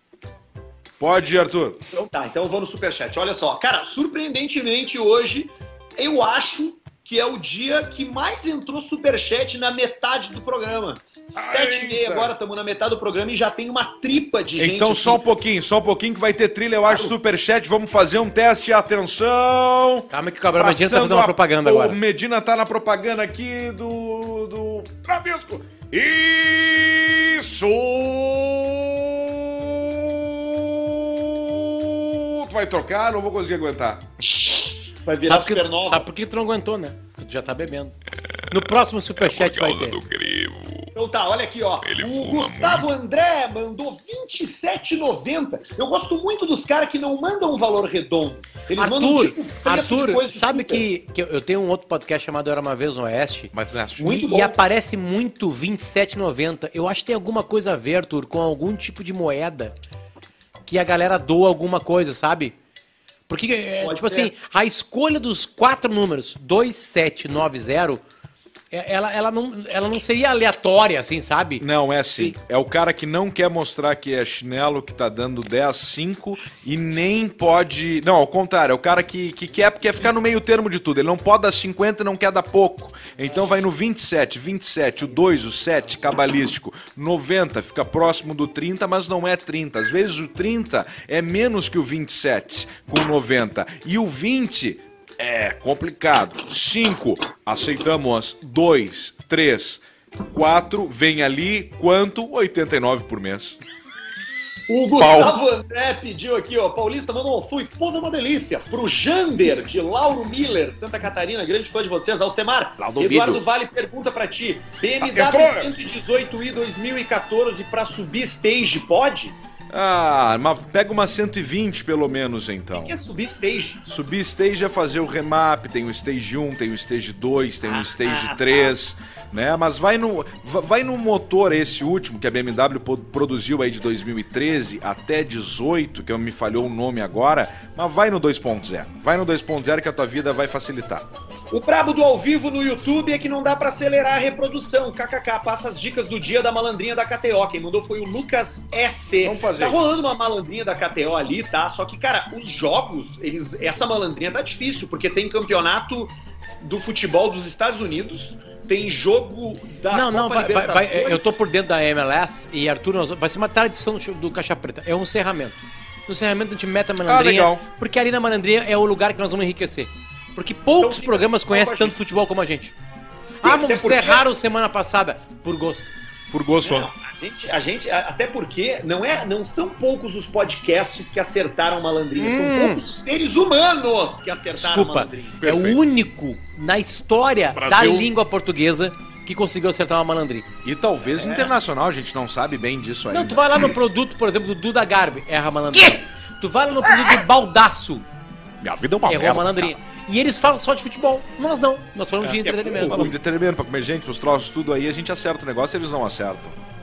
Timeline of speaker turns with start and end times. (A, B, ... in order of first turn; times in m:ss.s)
0:01.0-0:01.8 A
0:01.9-0:15.2 B
0:11.4-0:12.3 A
0:14.6-0:34.0 A
0:16.9-0:17.1 B
0:20.1-0:22.0 C
0:34.2-0:36.1 B
0:35.2-0:38.0 C
0:38.5-0:40.0 C
0:39.2-0:40.9 A
0:40.9-0:50.9 B
0:41.8-0:42.9 A
0:48.8-0:59.8 C
0:53.5-0:54.2 A
0:54.0-0:54.6 B
1:00.6-1:02.6 C
1:03.3-1:08.0 C
1:03.8-1:04.3 B
1:08.7-1:11.6 C
1:11.6-1:43.6 A
1:44.7-1:59.4 B
1:45.0-1:45.4 A
1:52.8-1:53.5 A
1:55.0-1:55.7 A
1:59.7-2:02.9 A
2:02.8-2:03.8 B
2:03.9-2:21.1 A
2:07.6-2:08.7 B
2:21.5-2:41.4 B
2:29.2-2:29.8 A
2:39.9-2:52.8 C
2:47.1-2:47.6 A
2:50.8-2:52.0 B
2:53.4-2:55.9 C
2:53.4-2:54.2 B
2:56.3-2:56.9 A
2:56.6-3:05.4 B
3:02.2-3:02.8 C
3:04.6-3:10.5 C
3:05.4-3:05.8 A
3:07.5-3:08.1 A
3:10.6-3:13.8 A
3:11.1-3:11.5 B
3:13.1-3:18.1 C
3:16.9-3:17.2 A
3:18.6-3:19.7 A
3:19.0-3:23.1 C
3:22.2-3:23.1 B
3:22.8-3:26.6 A